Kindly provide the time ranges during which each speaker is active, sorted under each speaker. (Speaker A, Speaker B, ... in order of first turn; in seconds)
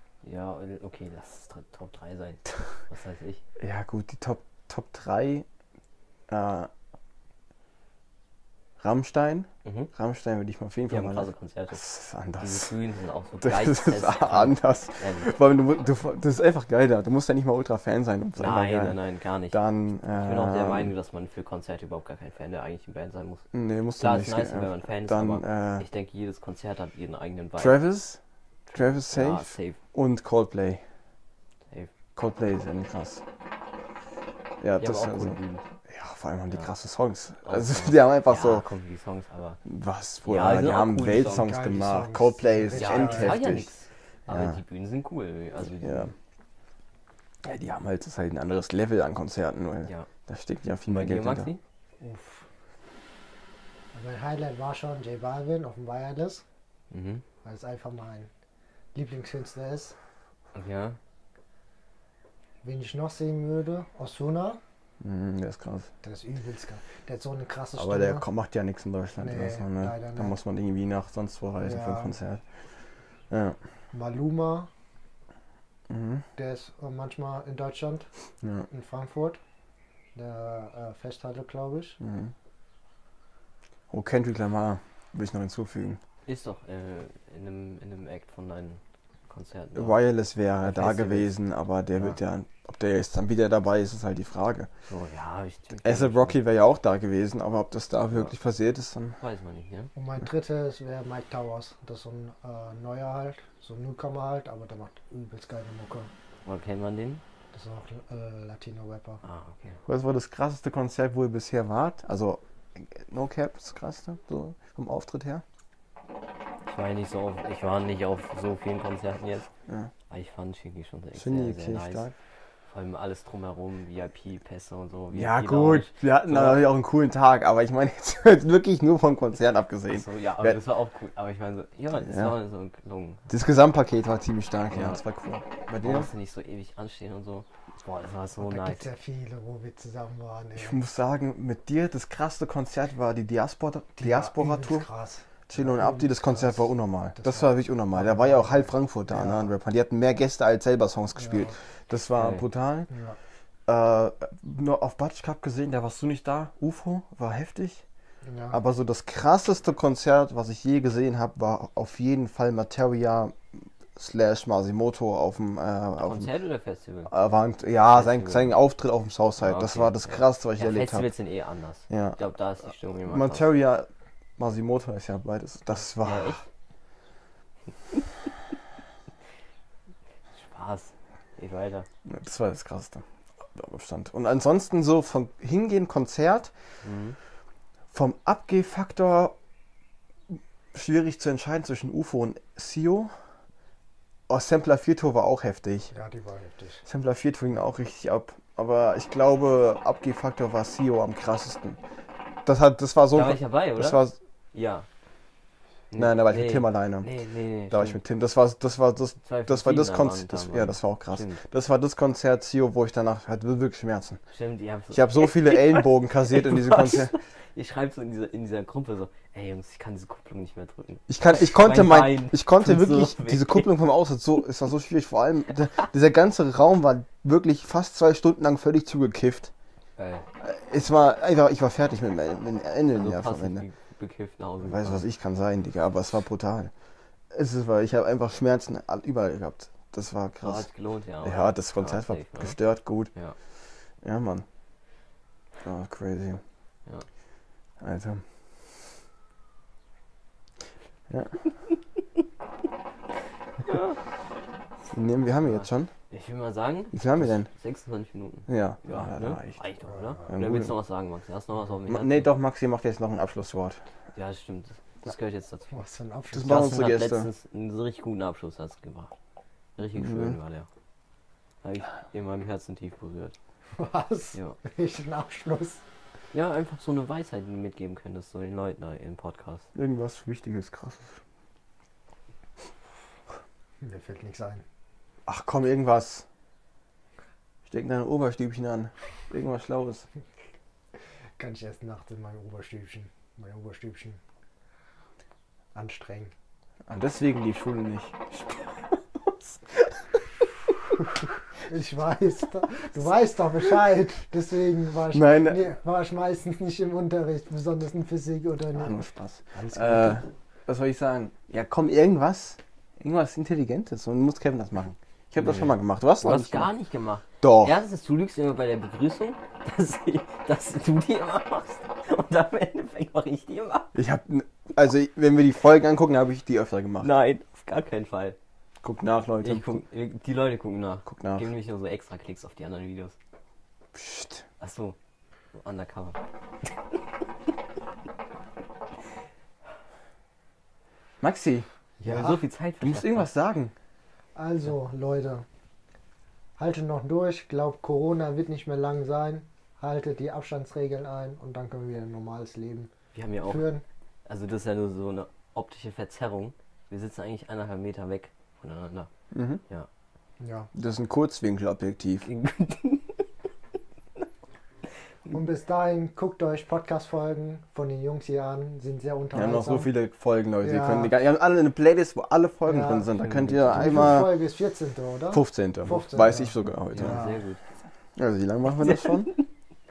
Speaker A: 0.2-3.4, 9.6-9.9, 10.9-11.8, 12.4-15.3, 18.4-23.4, 24.0-27.8, 28.7-29.8, 34.8-35.6, 37.4-39.6, 40.2-41.5, 42.8-46.1, 50.9-51.6, 56.9-57.2, 60.5-61.0, 86.3-90.0, 90.6-91.3, 94.9-96.4, 99.2-99.9, 106.5-107.2, 109.2-109.8, 116.7-119.5, 120.1-122.1, 122.7-126.7, 129.9-133.3, 134.7-135.0, 135.8-138.9, 152.2-152.4, 166.0-167.1, 167.9-168.5, 169.4-173.5, 176.0-176.4, 180.3-181.9, 186.8-187.2, 203.1-204.9, 205.9-208.0, 209.2-211.4, 214.3-223.7, 230.0-230.2, 232.9-235.0, 240.4-242.6, 253.7-254.0, 255.5-262.3, 264.1-265.8, 266.4-269.1, 269.8-270.7, 271.6-273.3, 276.3-279.7, 315.4-323.9, 327.0-328.4, 329.4-333.1, 334.6-334.9, 335.5-336.2, 342.0-343.3, 353.1-353.7, 354.2-359.1, 362.2-363.2, 373.2-374.2, 376.9-377.6, 378.8-379.4
Speaker B: 3.6-5.5, 6.3-6.7, 8.8-12.7, 13.4-19.0, 19.5-20.9, 23.5-25.9, 27.6-28.2, 28.7-30.8, 32.1-33.2, 34.6-38.6, 39.6-43.7, 44.3-44.6, 45.8-46.1, 47.4-51.5, 65.0-65.9, 67.7-72.4, 73.3-73.6, 75.9-76.2, 78.4-78.7, 82.0-82.3, 83.9-86.0, 89.7-94.7, 95.8-99.2, 109.8-115.4, 121.1-122.1, 125.1-130.6, 132.0-132.3, 133.3-136.1, 140.6-144.9, 145.5-152.9, 153.7-157.8, 158.5-166.3, 167.1-171.1, 171.9-172.2, 173.1-176.4, 182.1-186.5, 187.9-189.3, 190.7-193.1, 194.3-195.9, 196.8-201.8, 202.4-204.2, 206.0-207.1, 207.7-214.2, 214.9-217.1, 221.1-229.5, 230.4-233.6, 234.6-236.7, 237.3-240.7, 241.2-243.1, 244.0-244.4, 245.6-246.4, 247.8-248.2, 254.9-255.9, 256.9-257.5, 258.5-259.6, 260.3-260.7, 261.9-263.8, 266.3-267.3, 270.0-270.3, 279.7-281.2, 285.2-286.2, 287.6-290.0, 296.9-299.7, 305.1-305.6, 308.7-316.7, 317.4-317.7, 323.9-327.1, 328.8-329.8, 331.1-331.5, 333.9-334.4, 341.2-341.7, 342.8-343.7, 359.3-359.6, 360.7-362.3, 369.3-374.4, 375.3-377.2, 378.2-379.3
Speaker C: 41.4-43.6, 52.0-52.4, 53.9-56.4, 57.4-58.3, 58.9-60.0, 62.6-64.6, 66.0-68.2, 69.2-70.3, 71.6-72.1, 73.9-74.7, 76.3-78.1, 78.7-79.4, 80.1-82.0, 99.9-106.1, 107.5-109.2, 138.4-140.8, 144.0-149.5, 151.2-151.5, 152.9-153.2, 158.2-158.6, 195.9-196.8, 259.9-260.3, 265.7-266.7, 273.8-275.8, 283.8-284.6, 291.4-294.2, 295.7-296.3, 301.7-309.0, 309.5-310.2, 342.0-342.4, 344.3-345.4, 346.6-352.9, 353.4-353.8, 360.4-360.7, 365.3-369.9, 370.6-371.1, 372.6-373.1, 373.7-377.4